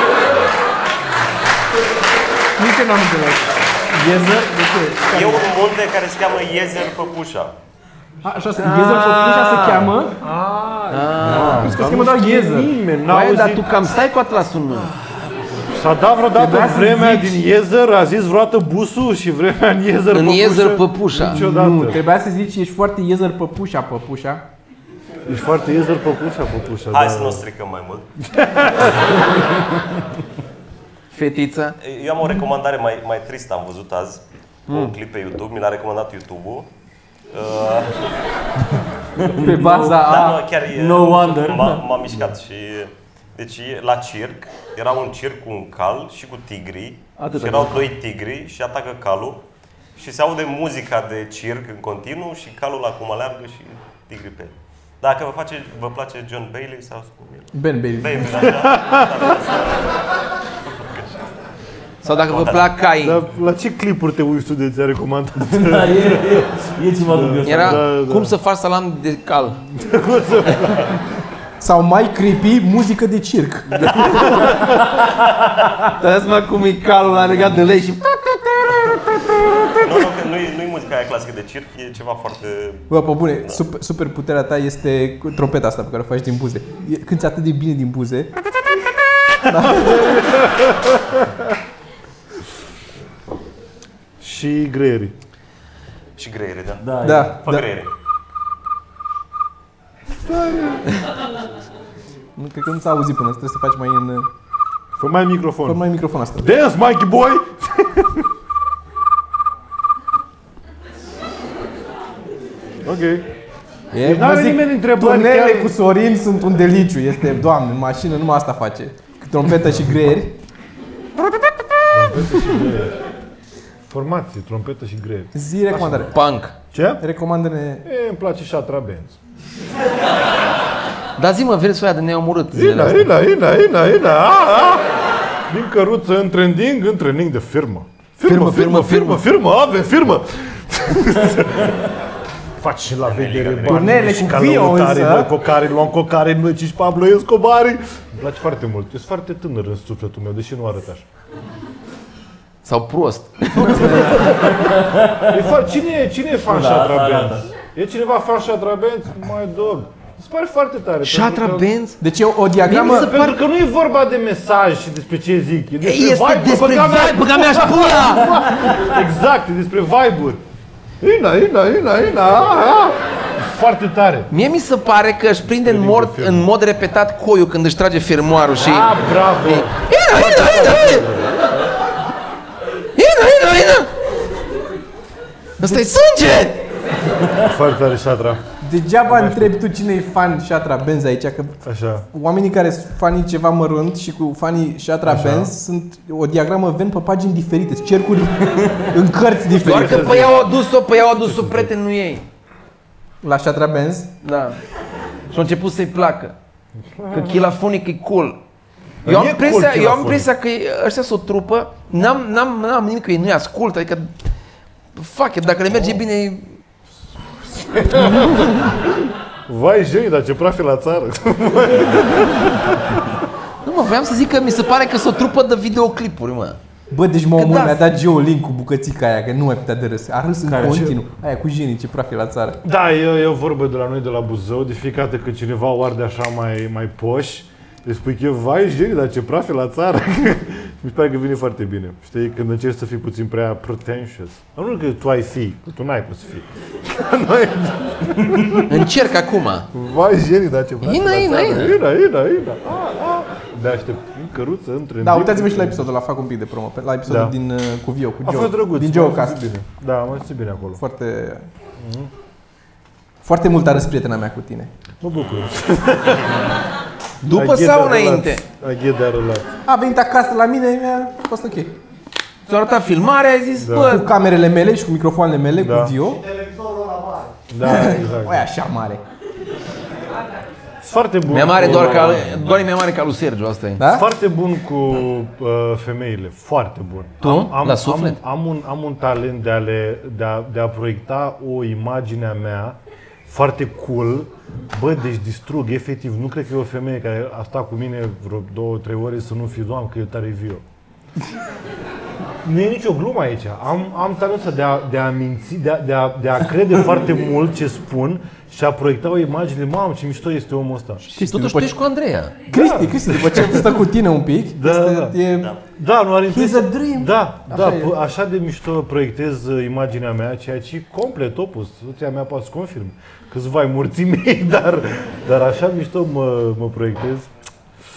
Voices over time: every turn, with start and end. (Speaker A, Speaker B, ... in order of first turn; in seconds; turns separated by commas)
Speaker A: 2.6-5.5, Speaker B: 5.1-7.5, Speaker A: 8.2-10.2, Speaker C: 8.6-9.8, Speaker D: 10.2-13.7, Speaker C: 10.9-11.8, Speaker A: 11.3-12.7, Speaker C: 13.1-14.9, Speaker D: 15.7-22.0, Speaker A: 16.4-17.4, Speaker C: 20.1-21.4, Speaker A: 21.2-24.4, Speaker D: 25.3-27.4, Speaker B: 26.9-28.1, Speaker D: 28.3-29.0, Speaker C: 31.1-31.8, Speaker B: 31.8-36.7, Speaker C: 34.7-35.0, Speaker B: 37.3-38.0, Speaker E: 39.2-40.0, Speaker A: 39.3-40.4, Speaker B: 39.6-49.4, Speaker E: 40.7-42.0, Speaker C: 47.2-47.9, Speaker B: 50.0-60.0, Speaker A: 57.5-58.5, Speaker D: 58.6-59.2, Speaker B: 60.6-61.2, Speaker C: 62.0-63.2, Speaker B: 62.2-62.7, Speaker D: 63.0-66.5, Speaker E: 65.4-67.8, Speaker D: 67.0-68.3, Speaker C: 67.4-69.6, Speaker D: 69.7-71.0, Speaker A: 71.6-74.3, Speaker D: 74.0-74.7, Speaker C: 75.9-79.4, Speaker B: 79.8-83.6, Speaker A: 82.9-88.3, Speaker A: 89.4-90.2, Speaker D: 89.6-91.5, Speaker D: 94.2-95.2, Speaker B: 96.2-97.9, Speaker E: 96.8-97.4, Speaker A: 97.0-97.7, Speaker D: 100.1-100.9, Speaker A: 102.4-104.3, Speaker D: 105.0-105.8, Speaker A: 105.7-106.5, Speaker D: 106.3-108.2, Speaker D: 112.8-113.3, Speaker A: 113.9-120.4, Speaker D: 114.0-115.8, Speaker D: 121.9-123.0, Speaker D: 123.9-126.1, Speaker A: 125.3-126.2, Speaker C: 126.1-126.5, Speaker D: 126.7-127.0, Speaker A: 127.0-127.8, Speaker D: 127.8-129.2, Speaker C: 131.2-133.1, Speaker D: 132.5-134.9, Speaker D: 135.5-141.9, Speaker C: 138.2-139.2, Speaker D: 142.6-151.1, Speaker B: 143.1-143.9, Speaker A: 143.7-145.3, Speaker C: 152.6-154.5, Speaker D: 153.6-161.7, Speaker E: 154.8-155.3, Speaker E: 156.5-157.5, Speaker C: 161.0-162.0, Speaker A: 162.0-163.2, Speaker C: 162.6-163.4, Speaker D: 162.7-170.4, Speaker C: 165.8-168.4, Speaker D: 171.0-174.3, Speaker C: 174.3-181.1, Speaker D: 175.6-176.5, Speaker D: 178.6-181.5, Speaker C: 182.9-183.9, Speaker A: 185.6-185.9, Speaker C: 185.6-186.6, Speaker D: 187.4-188.4, Speaker A: 188.6-200.3, Speaker D: 189.1-189.6, Speaker D: 191.6-192.1, Speaker D: 195.0-195.5, Speaker D: 199.6-200.4, Speaker C: 199.6-202.2, Speaker D: 201.2-201.7, Speaker A: 203.2-204.1, Speaker C: 204.2-204.6, Speaker C: 205.3-206.3, Speaker D: 206.9-207.5, Speaker C: 207.1-208.4, Speaker D: 209.0-210.3, Speaker C: 209.1-214.2, Speaker C: 214.9-216.6, Speaker D: 217.5-218.9, Speaker D: 219.5-223.2, Speaker C: 223.6-226.6, Speaker A: 226.9-232.6, Speaker C: 227.4-227.8, Speaker E: 230.5-230.9, Speaker D: 230.5-231.0, Speaker D: 232.6-248.9, Speaker C: 248.7-249.7, Speaker D: 249.7-255.9, Speaker C: 250.8-251.8, Speaker A: 255.0-259.6, Speaker D: 257.1-257.4, Speaker D: 258.2-260.8, Speaker A: 260.8-261.5, Speaker D: 261.8-262.1, Speaker A: 263.2-264.7, Speaker D: 265.0-266.5, Speaker C: 267.2-268.4, Speaker D: 267.3-269.5, Speaker A: 269.7-271.8, Speaker C: 272.5-274.1, Speaker D: 273.6-274.0, Speaker A: 273.9-276.2, Speaker D: 275.6-275.9, Speaker D: 277.5-278.5, Speaker A: 277.6-279.0, Speaker D: 280.8-282.2, Speaker C: 281.3-283.8, Speaker E: 281.6-282.6, Speaker A: 283.8-284.1, Speaker D: 283.9-300.6, Speaker C: 287.2-288.2, Speaker D: 302.4-311.0, Speaker A: 311.0-311.8, Speaker C: 311.1-312.4, Speaker A: 312.5-315.5, Speaker D: 312.5-313.8, Speaker D: 314.6-327.3, Speaker A: 316.3-317.9